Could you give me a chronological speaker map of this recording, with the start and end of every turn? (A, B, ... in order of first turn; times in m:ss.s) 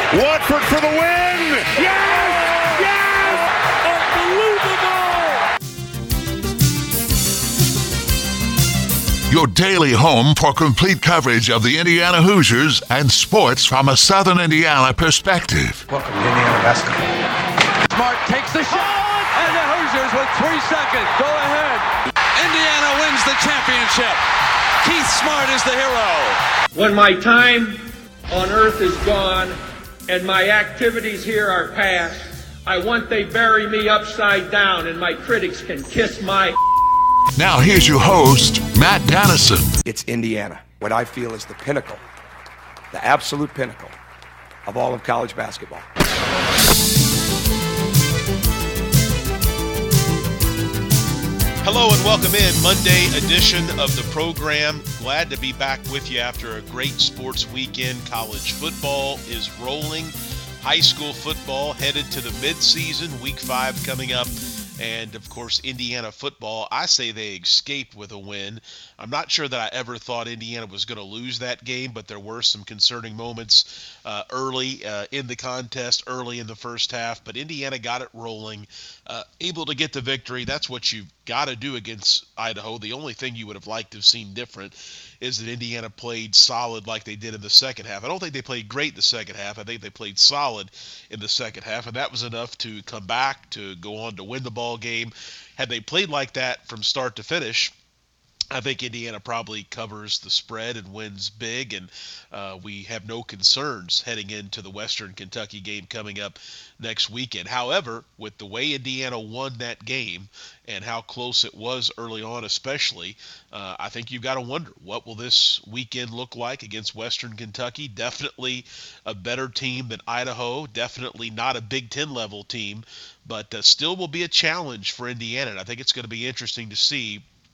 0:00.1-0:03.3 A
0:03.9-0:05.2 A
0:09.3-0:15.8 B
0:15.9-0:17.1 C
0:17.9-0:24.2 D
0:24.8-0:26.4 D
0:26.7-0:36.6 E
0:37.4-0:39.8 B
0:39.8-0:42.0 C
0:42.9-0:43.9 C
0:44.6-0:45.9 C
0:51.6-1:37.7 F
1:38.5-2:07.2 F